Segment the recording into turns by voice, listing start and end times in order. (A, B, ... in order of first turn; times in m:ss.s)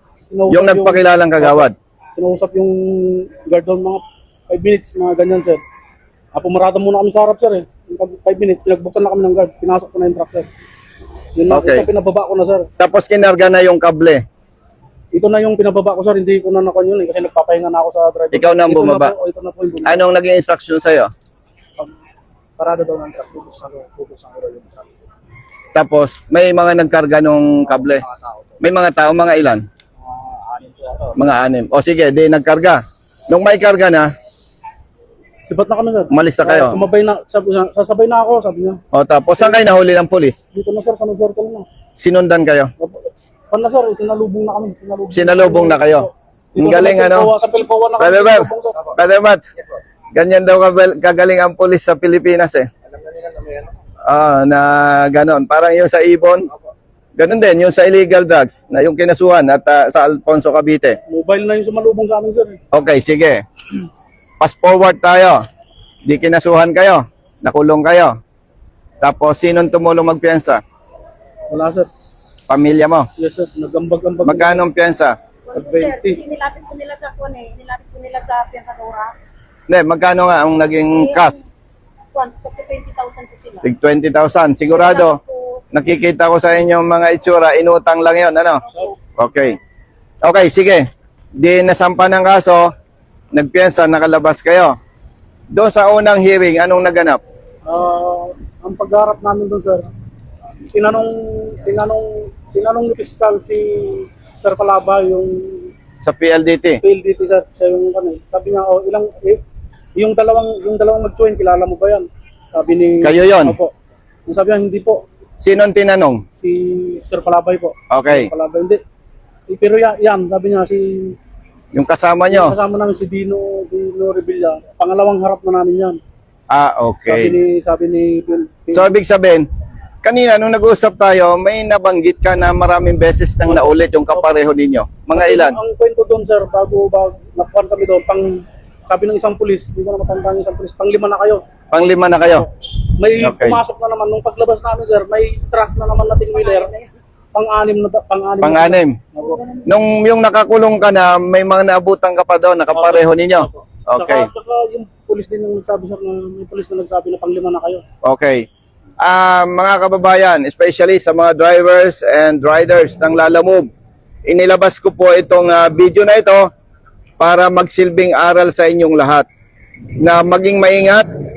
0:00.3-0:05.6 A
0:00.5-0:01.7 B
0:06.3-0:10.5 A
0:11.4-0:12.6 A
0:11.5-0:11.9 B
0:12.8-0:14.2 B
0:15.1-0:20.0 A
0:18.3-0:19.1 B
0:19.8-0:21.1 B
0:22.6-0:24.8 A
0:25.7-0:28.0 B
0:28.6-0:29.6 B
0:30.6-0:31.1 A
0:31.1-0:34.1 B
0:35.5-0:38.8 A
0:36.1-0:36.8 B
0:38.9-0:40.4 B
0:40.5-0:41.6 A
0:42.0-0:42.7 B
0:42.8-0:48.8 A
0:45.1-0:46.1 B
0:46.6-0:47.3 B
0:48.0-0:49.4 B
0:50.2-0:52.7 B
0:54.1-0:56.5 B
0:57.2-1:01.0 B
1:01.1-1:02.6 A
1:02.7-1:03.4 B
1:04.4-1:05.4 B
1:06.0-1:08.1 B
1:09.0-1:10.6 B
1:11.5-1:11.9 A
1:12.5-1:13.1 B
1:13.2-1:14.6 A
1:14.2-1:15.1 B
1:15.5-1:16.2 A
1:15.5-1:19.1 C
1:19.7-1:21.4 B
1:22.1-1:23.6 C
1:23.6-1:25.2 B
1:25.0-1:25.6 C
1:25.7-1:28.6 B
1:29.2-1:29.6 B
1:30.2-1:30.8 B
1:31.4-1:32.7 B
1:33.3-1:34.7 B
1:35.5-1:37.2 B
1:37.7-1:39.9 A
1:40.7-1:45.7 A
1:46.0-1:46.8 B
1:46.8-1:49.4 A
1:50.0-1:53.7 A
1:53.0-1:53.5 B
1:54.3-1:55.0 A
1:55.4-1:56.2 B
1:56.4-1:58.8 A
1:57.9-1:58.3 B
1:59.5-2:01.2 A
2:01.7-2:02.5 B
2:02.3-2:06.0 A
2:06.5-2:07.3 B
2:07.0-2:08.9 A
2:08.7-2:09.4 B
2:10.0-2:15.6 B
2:13.5-2:14.2 A
2:15.2-2:21.4 A
2:21.7-2:22.5 B
2:23.0-2:26.7 A
2:23.2-2:23.6 B
2:27.3-2:29.4 A
2:28.4-2:28.9 B
2:29.6-2:34.3 B
2:32.8-2:37.8 A
2:38.0-2:38.5 B
2:39.0-2:43.7 B
2:44.2-2:46.5 B
2:47.2-2:49.3 B
2:50.0-2:51.1 B